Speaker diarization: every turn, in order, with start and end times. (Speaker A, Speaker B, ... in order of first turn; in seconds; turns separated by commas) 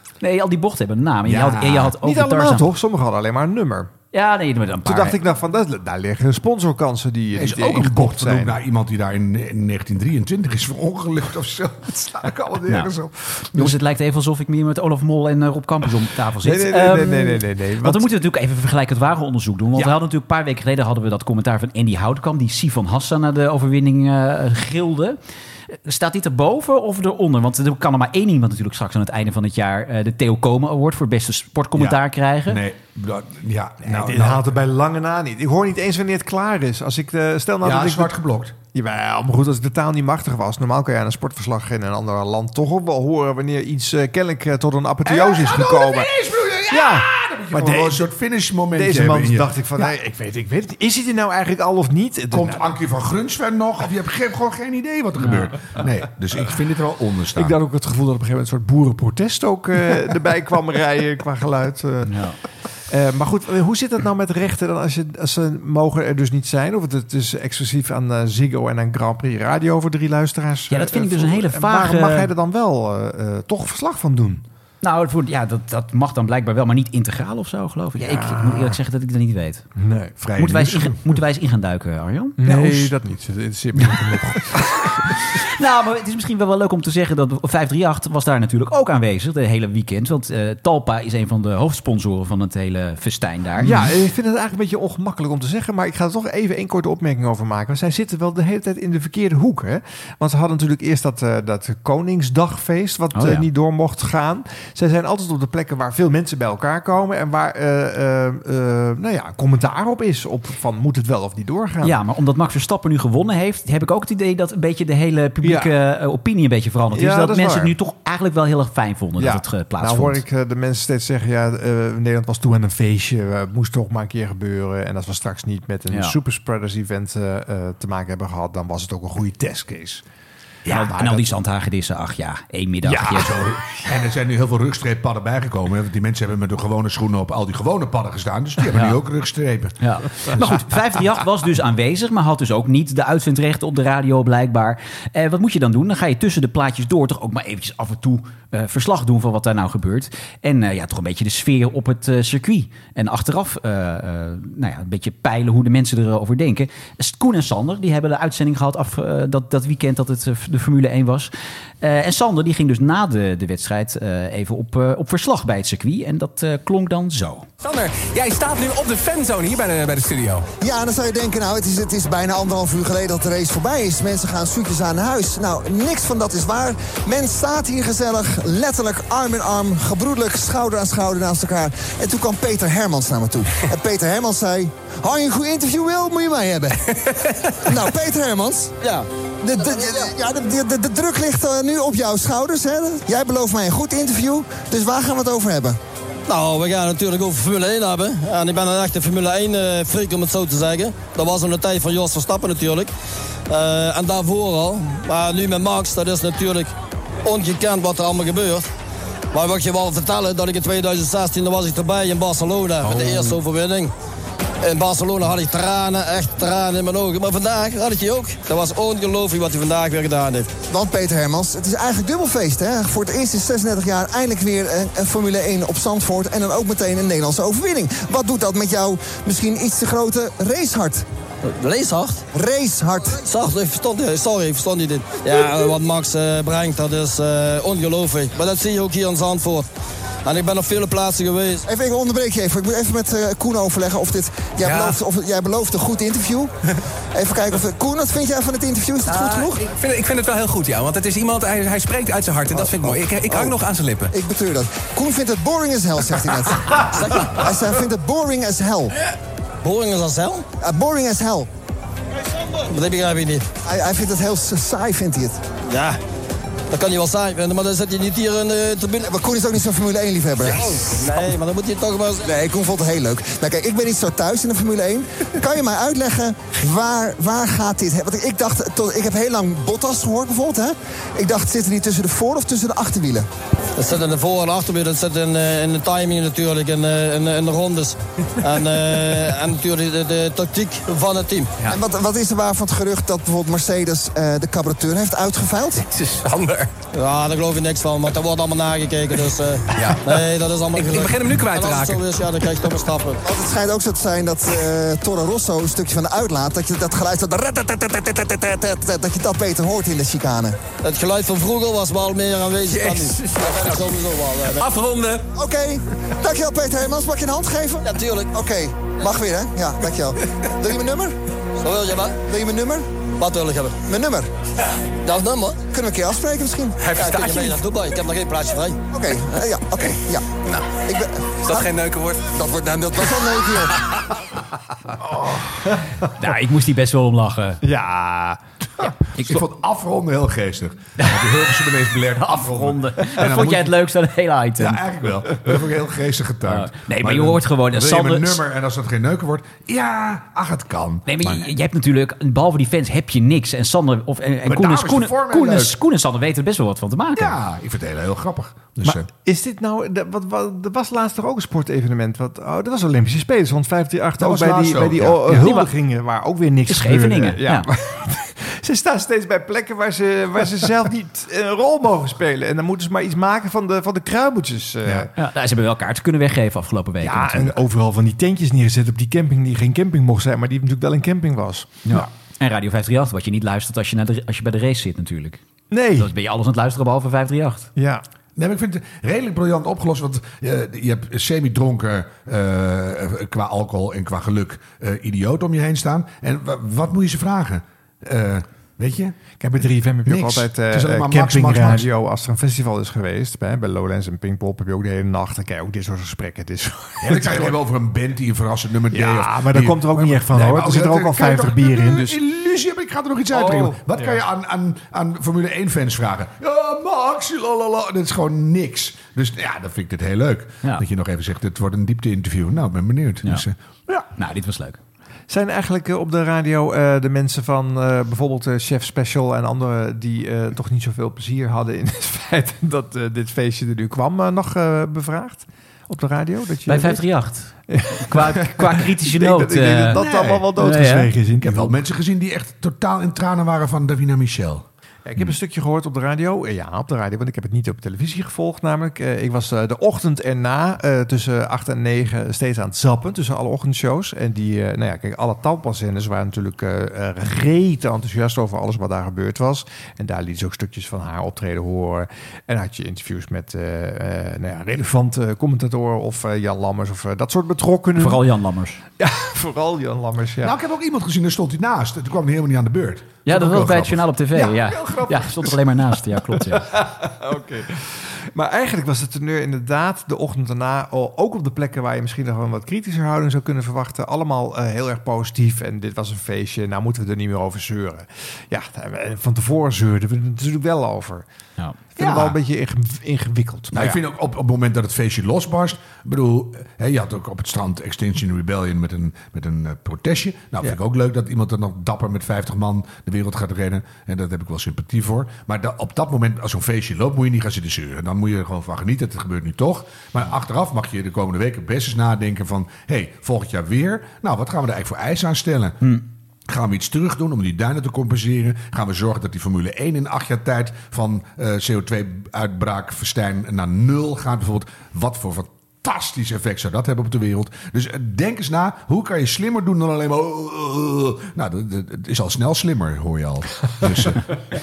Speaker A: 0.2-2.7, Speaker B: 1.3-1.9, Speaker C: 2.0-3.9, Speaker A: 4.1-5.2, Speaker C: 4.8-8.6, Speaker B: 7.3-13.8, Speaker A: 13.6-25.2, Speaker C: 16.4-18.1, Speaker A: 25.7-32.6, Speaker B: 31.8-34.5, Speaker C: 33.9-38.1, Speaker B: 37.6-38.6, Speaker C: 38.7-46.1, Speaker B: 45.0-49.9, Speaker C: 46.7-48.0, Speaker C: 48.8-52.7, Speaker B: 52.3-57.6, Speaker C: 57.4-62.2, Speaker A: 62.1-62.4, Speaker C: 62.9-74.4, Speaker A: 70.7-72.3, Speaker A: 74.8-79.7, Speaker C: 78.0-78.8, Speaker C: 79.8-80.2, Speaker B: 80.2-81.2, Speaker A: 80.4-82.9, Speaker C: 82.4-84.8, Speaker A: 85.5-93.9, Speaker C: 93.6-112.0, Speaker A: 103.1-103.5, Speaker A: 111.8-120.2, Speaker C: 115.4-115.7, Speaker C: 116.9-117.7, Speaker C: 119.2-130.0, Speaker A: 130.7-133.4, Speaker C: 130.7-131.2, Speaker B: 132.9-139.8, Speaker A: 138.7-139.0, Speaker A: 139.8-167.5, Speaker D: 167.6-170.5, Speaker E: 170.6-186.9, Speaker E: 187.7-188.7, Speaker E: 189.4-195.8, Speaker F: 189.7-190.1, Speaker F: 196.3-202.9, Speaker F: 203.5-206.7, Speaker F: 207.2-208.7, Speaker F: 209.3-213.9, Speaker F: 214.6-220.5, Speaker E: 220.7-231.1, Speaker F: 231.4-232.2, Speaker E: 232.3-233.2, Speaker F: 233.2-239.7, Speaker F: 240.2-241.6, Speaker E: 241.7-246.5, Speaker D: 244.6-245.0, Speaker E: 247.1-249.7, Speaker D: 249.1-254.1, Speaker E: 252.5-253.6, Speaker E: 254.1-258.9, Speaker F: 256.9-257.4, Speaker F: 259.6-260.5, Speaker E: 260.6-261.5, Speaker F: 262.7-263.4, Speaker E: 263.7-265.4, Speaker F: 265.7-266.0, Speaker F: 266.7-269.1, Speaker E: 269.1-271.2, Speaker F: 270.5-272.2, Speaker E: 272.2-283.3, Speaker F: 283.8-291.5, Speaker E: 291.7-295.9, Speaker D: 296.0-296.7, Speaker F: 296.9-303.2, Speaker D: 299.8-300.0, Speaker D: 300.8-302.1, Speaker E: 303.2-310.6, Speaker F: 310.8-314.7, Speaker D: 312.7-313.8, Speaker E: 315.4-321.1, Speaker F: 317.8-318.3, Speaker F: 321.6-322.2, Speaker E: 322.3-322.9, Speaker F: 323.2-323.8, Speaker E: 323.9-324.3, Speaker F: 325.0-325.6, Speaker E: 325.7-327.6, Speaker F: 326.9-328.8, Speaker E: 328.9-330.3, Speaker E: 330.9-331.7, Speaker D: 331.5-332.2, Speaker E: 332.4-333.8, Speaker C: 335.2-335.9, Speaker A: 336.2-337.6, Speaker C: 337.6-338.4, Speaker A: 339.2-339.4, Speaker B: 339.2-343.8, Speaker A: 341.0-341.4, Speaker A: 342.1-344.8, Speaker B: 344.6-351.4, Speaker A: 346.5-348.4, Speaker A: 351.1-357.4, Speaker B: 354.4-355.8, Speaker B: 357.2-359.1, Speaker C: 358.9-375.1, Speaker B: 364.2-365.5, Speaker A: 365.3-365.7, Speaker A: 366.7-367.7, Speaker A: 375.1-377.6, Speaker C: 377.0-382.1, Speaker A: 381.9-385.4, Speaker C: 385.7-386.1, Speaker A: 386.0-387.7, Speaker C: 387.8-388.0, Speaker B: 388.4-399.3, Speaker C: 399.4-407.6, Speaker B: 400.1-401.9, Speaker B: 407.0-424.0, Speaker C: 408.9-412.2, Speaker C: 413.3-414.2, Speaker A: 424.1-424.8, Speaker C: 425.3-437.1, Speaker A: 436.7-440.0, Speaker C: 437.7-441.8, Speaker B: 439.9-440.5, Speaker A: 440.6-441.1, Speaker B: 441.4-444.6, Speaker C: 445.1-468.2, Speaker A: 468.0-468.8, Speaker C: 469.0-470.5, Speaker B: 470.4-474.9, Speaker A: 473.3-476.7, Speaker C: 474.7-475.1, Speaker C: 476.4-491.2, Speaker C: 491.9-494.0, Speaker B: 492.0-492.4, Speaker B: 493.7-515.8, Speaker B: 516.5-534.2